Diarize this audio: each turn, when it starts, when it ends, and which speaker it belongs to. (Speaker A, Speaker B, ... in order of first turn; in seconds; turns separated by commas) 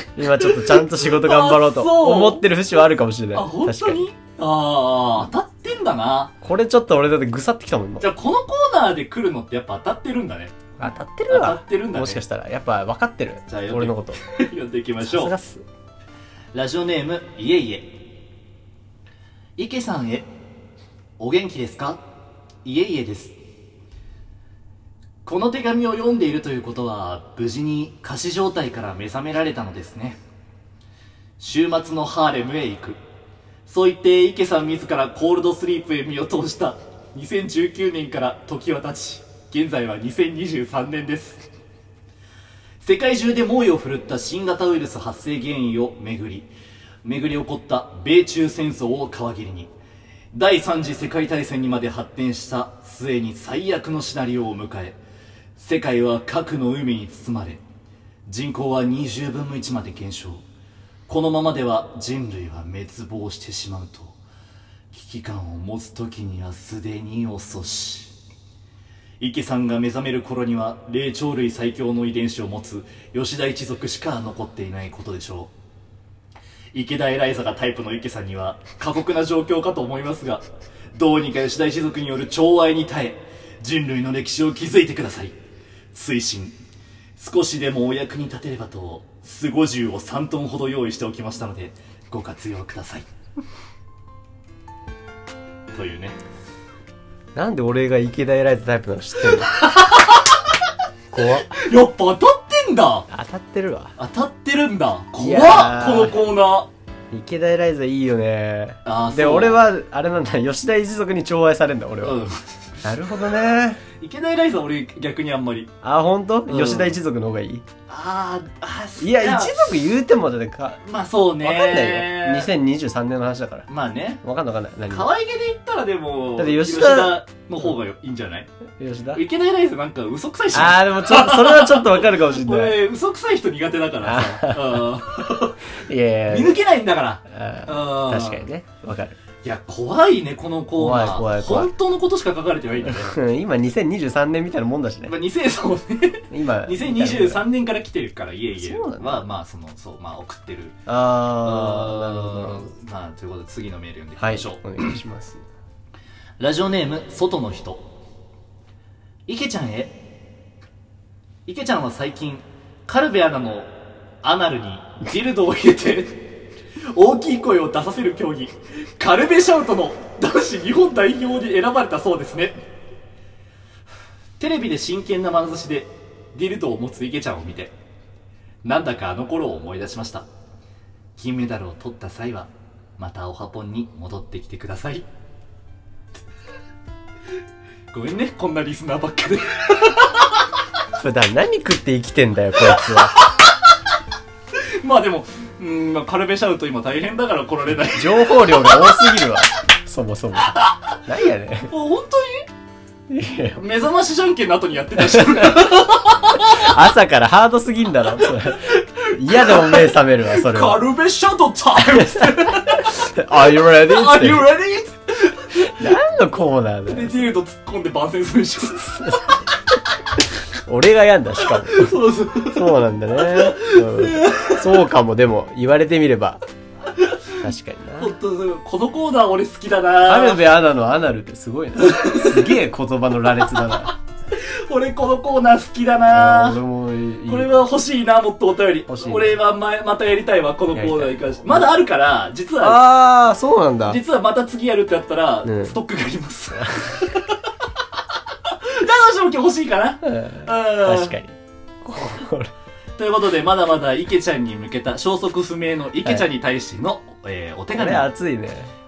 Speaker A: 0.1-4.0, Speaker B: 0.6-2.5, Speaker B: 3.3-6.3, Speaker A: 6.4-8.1, Speaker B: 8.0-12.2, Speaker A: 10.8-14.2, Speaker B: 13.5-15.3, Speaker A: 15.0-15.6, Speaker B: 16.5-18.1, Speaker B: 19.6-20.3, Speaker B: 21.2-22.1, Speaker B: 22.6-23.4, Speaker B: 25.2-30.2, Speaker B: 31.4-33.0, Speaker B: 33.6-41.5, Speaker B: 42.8-46.5, Speaker B: 47.0-49.7, Speaker B: 50.3-55.0, Speaker B: 55.6-57.6, Speaker B: 58.3-60.4, Speaker B: 61.1-64.2, Speaker B: 64.9-68.1, Speaker B: 69.2-75.5, Speaker B: 76.7-85.4, Speaker B: 85.9-86.6, Speaker B: 87.2-93.1, Speaker B: 95.7-96.2, Speaker A: 97.3-99.5, Speaker B: 99.5-100.4, Speaker A: 101.1-101.6, Speaker B: 101.3-103.1, Speaker A: 103.1-104.0, Speaker B: 104.0-106.7, Speaker A: 105.2-106.2, Speaker A: 107.1-112.2, Speaker B: 108.8-109.7, Speaker B: 112.0-112.7, Speaker A: 112.8-113.8, Speaker B: 114.0-115.7, Speaker A: 115.8-117.7, Speaker B: 116.5-117.0, Speaker B: 117.9-119.7, Speaker A: 119.0-120.8, Speaker B: 120.8-122.5, Speaker A: 121.4-123.7, Speaker B: 123.7-124.2, Speaker A: 124.2-125.1, Speaker B: 124.9-128.5, Speaker A: 126.4-127.2, Speaker A: 128.8-129.2, Speaker B: 129.1-135.7, Speaker A: 130.5-132.8, Speaker A: 134.0-134.9, Speaker A: 135.8-136.6, Speaker B: 136.3-138.5, Speaker A: 137.3-139.2, Speaker B: 139.4-143.2, Speaker A: 140.8-141.7, Speaker A: 142.8-145.2, Speaker B: 145.1-150.8, Speaker A: 146.3-147.4, Speaker A: 148.6-149.2, Speaker A: 150.9-152.7, Speaker B: 151.4-155.0, Speaker A: 154.2-155.4, Speaker B: 156.4-157.9, Speaker B: 159.3-160.0, Speaker B: 161.5-166.2, Speaker B: 166.9-172.6, Speaker B: 174.4-177.7, Speaker B: 178.6-180.3, Speaker B: 181.2-185.1, Speaker B: 187.9-190.4, Speaker A: 191.0-193.3, Speaker B: 194.6-198.8, Speaker A: 197.9-201.7, Speaker B: 201.7-202.5, Speaker A: 203.1-203.6, Speaker B: 203.6-206.8, Speaker A: 205.0-210.9, Speaker B: 208.2-215.9, Speaker A: 211.8-214.5, Speaker A: 215.6-217.3, Speaker B: 216.9-219.4, Speaker A: 220.7-226.4, Speaker B: 221.4-224.8, Speaker B: 226.9-227.5, Speaker A: 227.4-228.1, Speaker B: 228.0-230.4, Speaker A: 230.0-234.0, Speaker B: 231.8-232.6, Speaker B: 234.3-236.6, Speaker A: 236.1-237.6, Speaker B: 237.3-242.9, Speaker A: 238.9-239.4, Speaker A: 240.7-241.7, Speaker A: 242.6-244.0, Speaker B: 243.9-247.4, Speaker A: 245.4-245.8, Speaker B: 248.3-251.2, Speaker A: 250.0-252.5, Speaker B: 253.0-258.1, Speaker A: 257.7-258.7